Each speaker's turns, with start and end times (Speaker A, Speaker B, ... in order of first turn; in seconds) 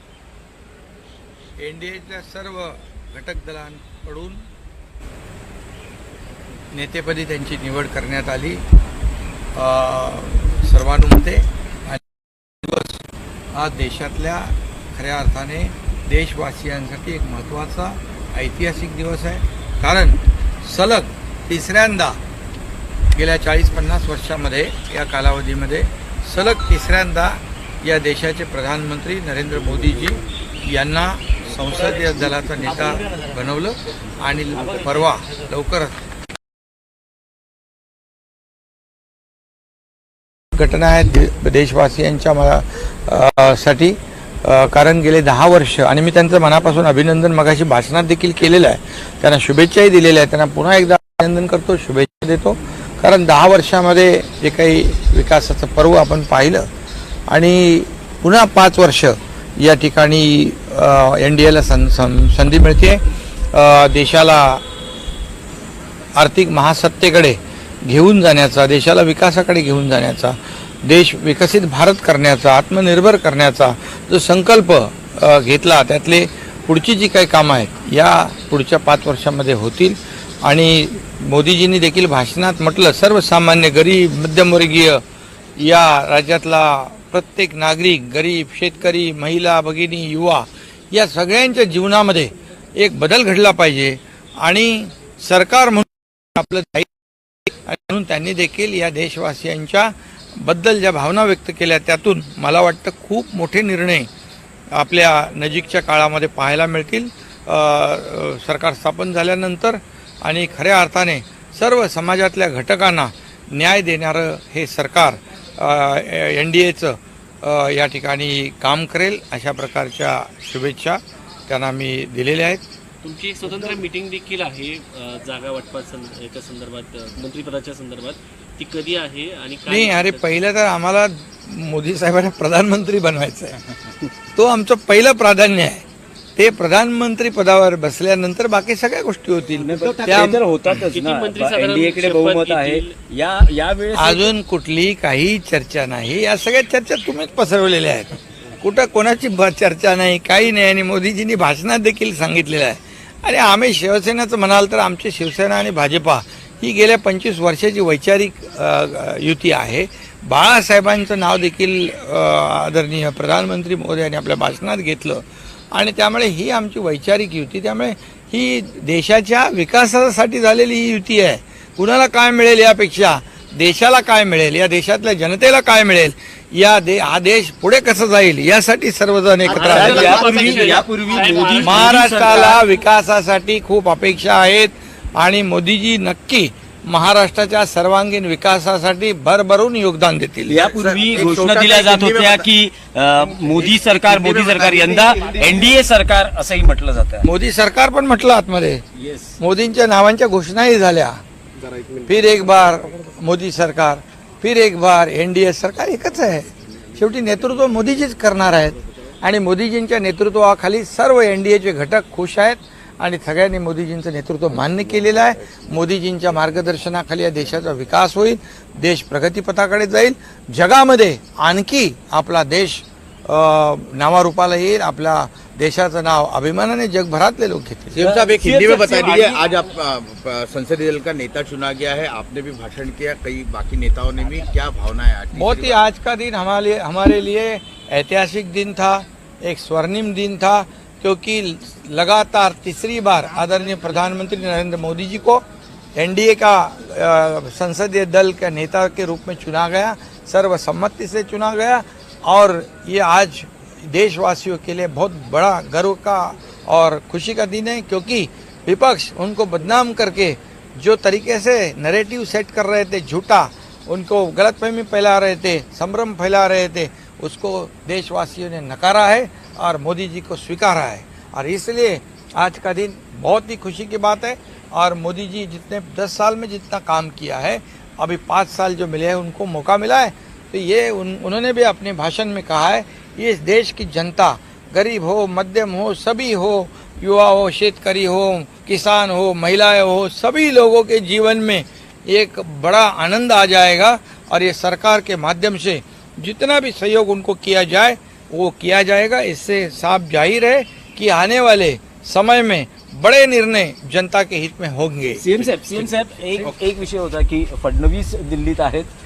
Speaker A: 1.6-4.4, 6.7-8.6, 9.5-22.2, 23.1-36.0, 40.5-56.7, 57.3-63.0, 63.5-64.6, 66.2-85.0, 85.6-96.9, 97.5-104.1, 104.7-122.6, 129.7-133.7, 134.3-135.8, 136.3-140.8, 143.9-180.4, 181.6-190.7, 197.2-198.8, 199.4-201.2, 202.0-228.0, 235.3-245.4, 245.9-305.3
Speaker B: 123.0-130.4, 140.2-142.9, 179.5-182.6
Speaker C: 139.6-144.3, 179.5-182.5, 190.5-197.3, 198.9-199.4, 228.0-229.7, 305.1-308.9
Speaker D: 190.7-192.5, 193.3-195.7, 228.0-235.8